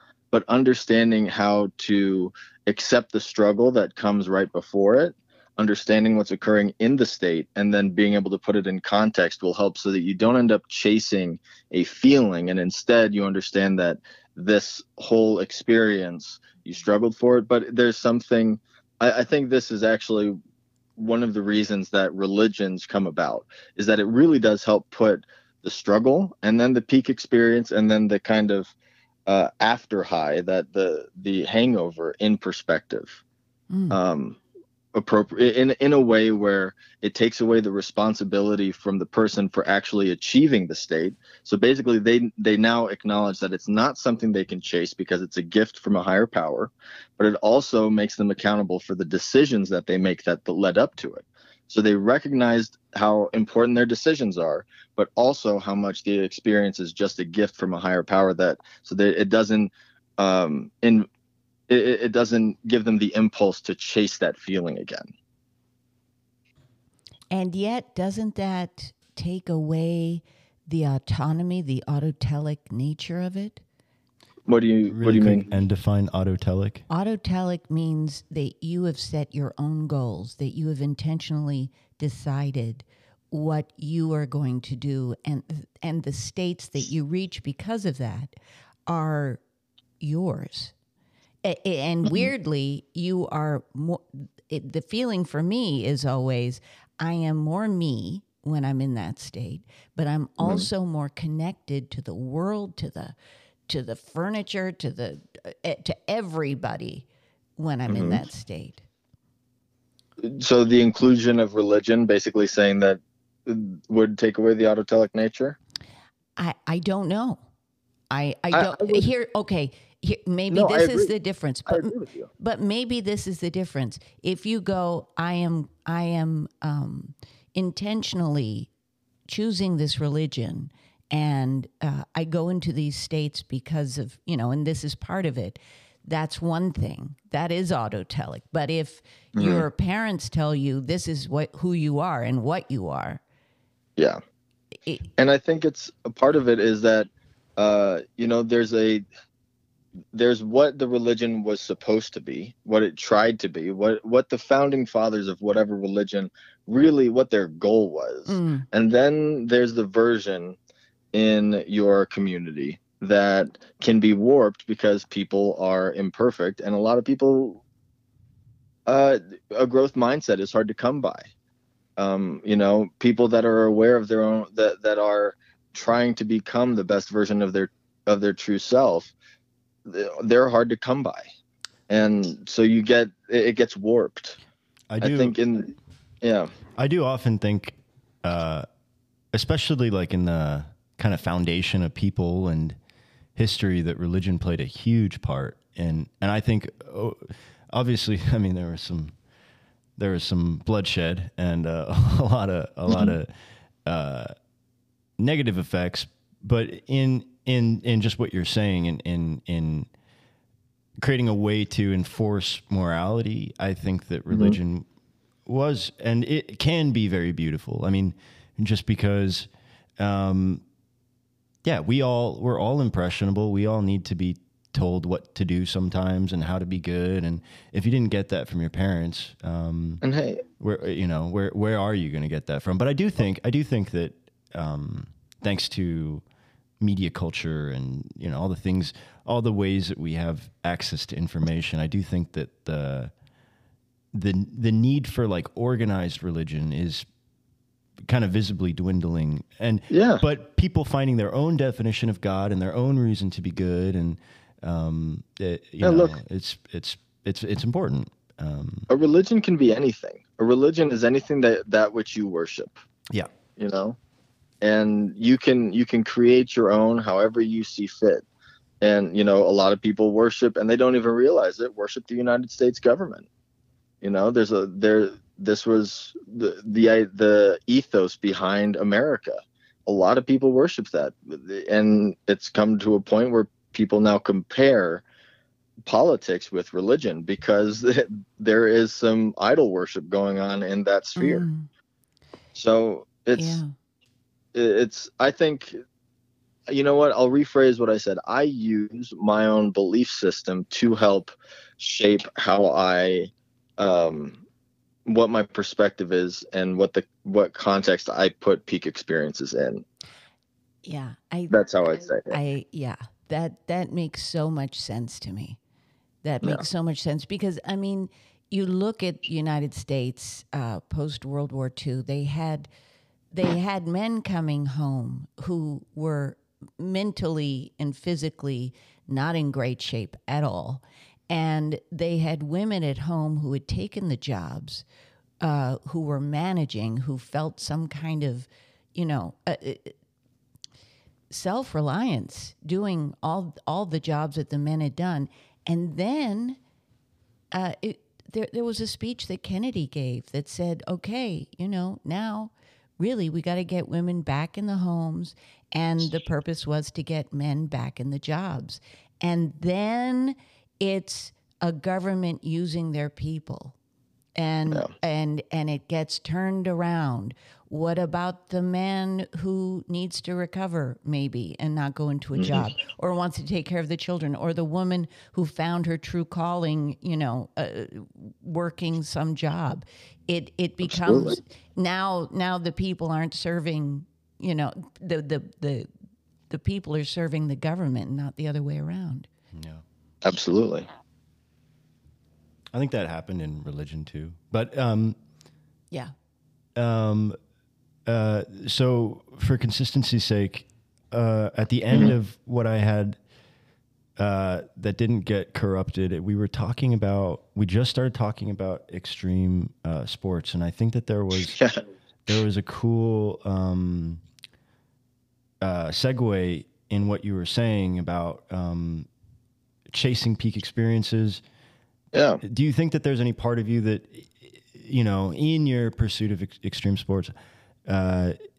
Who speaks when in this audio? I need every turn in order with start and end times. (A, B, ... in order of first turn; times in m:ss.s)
0:00.3-0:20.4 A
0:21.0-0:28.7 A
0:29.3-0:33.2 A
0:33.7-0:34.0 B
0:33.9-0:34.4 A
0:34.9-1:01.1 A
1:01.7-1:05.1 A
1:07.3-1:13.6 B
1:14.5-1:15.4 A
1:14.9-1:16.8 C
1:16.9-1:28.3 B
1:28.9-1:29.4 B
1:30.0-1:30.7 B
1:31.4-1:43.2 B
1:32.0-1:32.3 A
1:40.4-1:40.7 A
1:43.7-1:47.1 B
1:47.6-1:48.8 B
1:47.9-1:48.2 A
1:50.2-1:55.6 A
1:56.4-1:57.4 B
1:58.1-2:08.7 B
1:58.5-1:59.1 A
2:00.5-2:01.1 A
2:01.7-2:02.3 A
2:09.3-2:23.2 B
2:19.4-2:19.7 A
2:25.2-2:29.0 A
2:30.1-2:40.6 A
2:38.3-2:38.7 B
2:41.1-2:47.6 A
2:48.9-2:51.3 A
2:52.0-2:59.1 A
2:59.8-3:01.3 A
3:01.9-3:04.4 A
3:04.9-3:05.4 C
3:05.0-3:06.5 A
3:06.8-3:08.7 C
3:09.3-3:12.8 C
3:13.4-3:19.2 C
3:20.0-3:23.3 C
3:23.8-3:24.3 C
3:25.2-3:29.9 C
3:31.0-3:34.9 C
3:34.3-3:34.6 A
3:35.5-3:39.5 C
3:40.0-3:40.6 C
3:41.6-3:50.0 C
3:50.0-3:50.4 A
3:50.6-3:56.2 C
3:56.8-4:03.1 C
4:04.1-4:07.1 C
4:08.0-4:18.9 C
4:09.9-4:10.2 A
4:15.8-4:16.2 A
4:18.9-4:22.8 A
4:23.6-4:24.0 A
4:24.6-4:28.2 A
4:28.8-4:33.3 A
4:34.0-4:45.0 A
4:45.9-4:51.5 A
4:51.2-4:51.7 B
4:52.6-4:53.6 A
4:53.4-4:53.7 B
4:54.5-4:55.8 A
4:56.7-5:04.4 A
5:05.1-5:09.8 A
5:10.8-5:15.6 B
5:11.5-5:12.4 A
5:16.2-5:22.7 B
5:23.3-5:34.8 B
5:35.4-5:40.0 B
5:41.3-5:46.6 B
5:47.5-6:03.8 B
6:04.4-6:25.9 B
6:12.4-6:12.7 A
6:20.9-6:21.4 A
6:26.5-6:29.3 B
6:29.5-6:29.8 C
6:30.2-6:30.9 A
6:32.7-6:35.2 C
6:36.8-6:37.4 C
6:38.1-6:43.2 C
6:44.2-6:51.6 C
6:52.2-6:54.2 C
6:55.6-6:59.1 C
6:59.9-7:01.4 C
7:02.1-7:02.4 A
7:02.4-7:07.3 C
7:07.9-7:08.4 C